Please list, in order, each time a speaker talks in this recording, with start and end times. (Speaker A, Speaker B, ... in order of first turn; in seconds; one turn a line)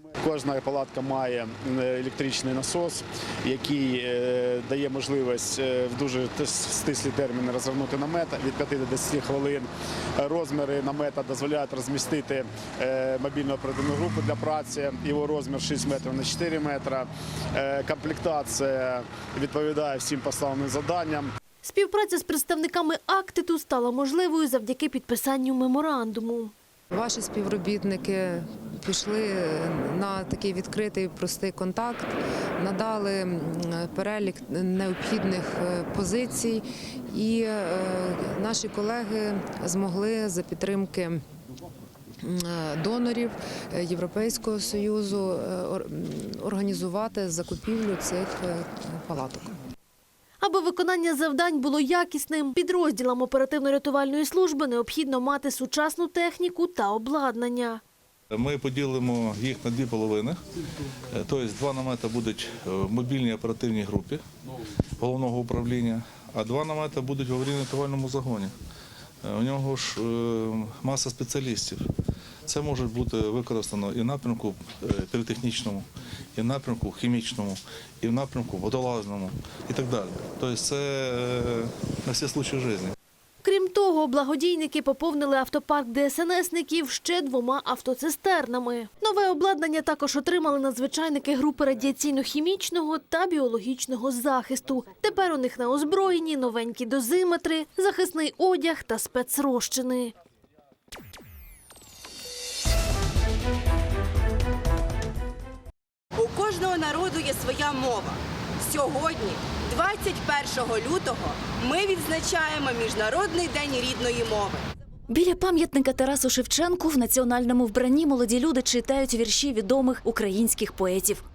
Speaker A: 0.2-21.3
Speaker B: 21.6-26.5
Speaker C: 26.9-41.2
Speaker C: 42.2-49.5
Speaker B: 50.4-57.8
Speaker D: 58.3-60.4
Speaker D: 61.1-64.2
Speaker D: 65.0-68.5
Speaker D: 69.2-71.8
Speaker D: 72.5-82.9
Speaker B: 83.4-100.1
Speaker E: 106.1-114.6
Speaker F: 115.1-121.2